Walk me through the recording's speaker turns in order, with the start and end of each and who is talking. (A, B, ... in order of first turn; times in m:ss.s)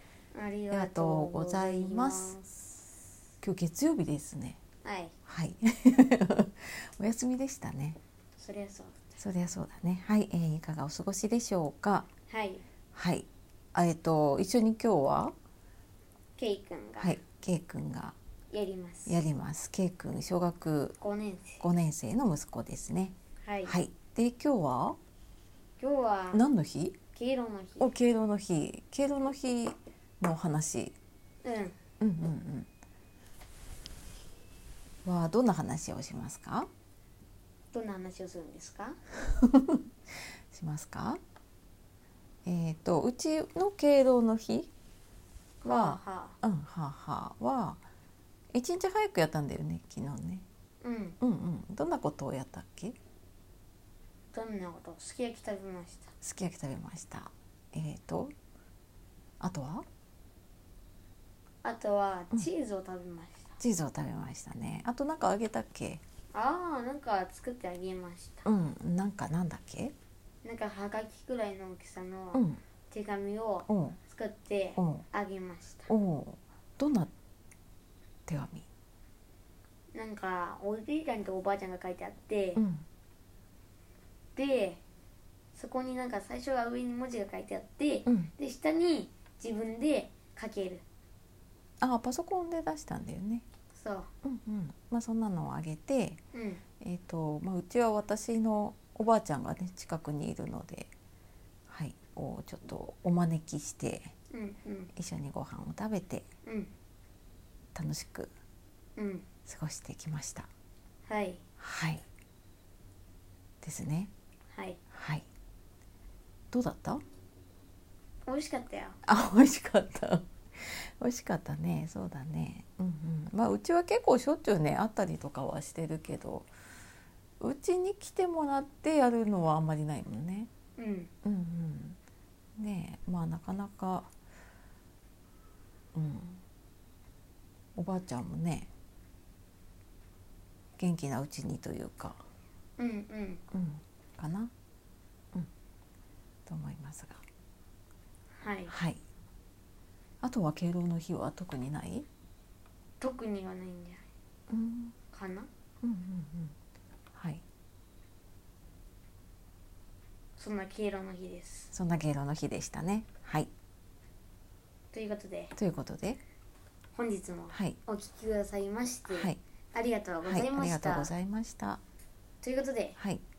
0:00.3-0:02.5 A
0:00.7-0:02.4 B
0:03.4-0:04.6 B
0:04.8-0:05.1 A
0:05.3-0:08.0 B
0:08.4-0:09.2 A
0:09.2-0:12.1 B
0:12.3-0:12.6 A
0:12.9-0:15.3 B
0:16.4-0:17.2 A
0:17.0-0:18.2 B
0:18.5-0:19.2 A
0:19.1-0:21.0 B
0:21.0-0:21.6 A
0:21.6-0:23.2 B
0:23.4-0:23.8 A
0:23.7-0:25.0 B
0:25.8-0:26.4 A
0:26.3-0:27.0 B
0:27.1-0:27.9 A
0:27.8-0:31.0 B
0:31.4-0:31.8 A
0:32.0-0:32.7 B
0:35.0-0:36.7 B
0:37.7-0:39.0 A
0:39.3-0:39.8 B
0:40.5-0:41.2 B
0:42.4-0:44.7 B
0:45.6-0:46.4 A
0:45.6-0:47.8 B
0:48.5-0:50.4 B
0:50.8-0:51.2 A
0:51.2-0:53.0 B
0:54.3-0:56.1 A
0:56.2-0:58.3 B
0:59.4-0:59.8 B
1:01.6-1:03.6 A
1:03.6-1:06.0 B
1:06.3-1:08.4 A
1:08.4-1:09.9 B
1:10.4-1:15.9 A
1:12.3-1:12.6 B
1:13.7-1:14.0 B
1:14.8-1:15.0 B
1:15.9-1:17.1 B
1:18.3-1:18.7 B
1:19.9-1:22.6 A
1:22.6-1:22.8 B
1:24.4-1:24.8 A
1:25.5-1:30.8 A
1:28.0-1:28.3 B
1:31.8-1:33.4 B
1:33.7-1:34.1 A
1:34.2-1:36.2 B
1:36.3-1:36.6 A
1:36.8-1:40.9 B
1:41.7-1:44.1 B
1:44.3-1:44.9 A
1:45.0-1:46.2 B
1:46.4-1:46.7 A
1:47.7-1:48.3 B
1:49.0-1:49.3 A
1:49.4-1:50.5 B
1:51.1-1:51.4 A
1:51.6-1:52.0 B
1:53.6-1:54.1 B
1:54.5-1:54.8 A
1:54.9-1:55.2 B
1:56.5-1:57.0 B
1:58.2-1:59.0 A
1:59.0-2:06.5 B
2:07.4-2:10.5 B
2:10.8-2:11.1 A
2:11.2-2:12.0 B
2:12.6-2:14.1 B
2:15.9-2:16.4 B
2:17.8-2:18.7 B
2:20.8-2:22.2 B
2:22.8-2:23.4 A
2:23.5-2:24.5 B
2:26.5-2:27.2 B
2:28.4-2:28.7 A
2:28.7-2:29.0 B
2:30.2-2:32.1 B
2:33.0-2:34.0 A
2:34.5-2:34.9 B
2:35.1-2:35.5 A
2:35.8-2:36.5 B
2:37.1-2:37.4 B
2:40.4-2:41.7 A
2:41.7-2:43.5 B
2:44.9-2:45.5 A
2:45.6-2:46.2 B
2:46.9-2:51.1 A
2:47.5-2:47.8 B
2:49.1-2:49.4 B
2:50.2-2:51.8 B
2:52.4-2:53.0 A
2:53.0-2:53.2 B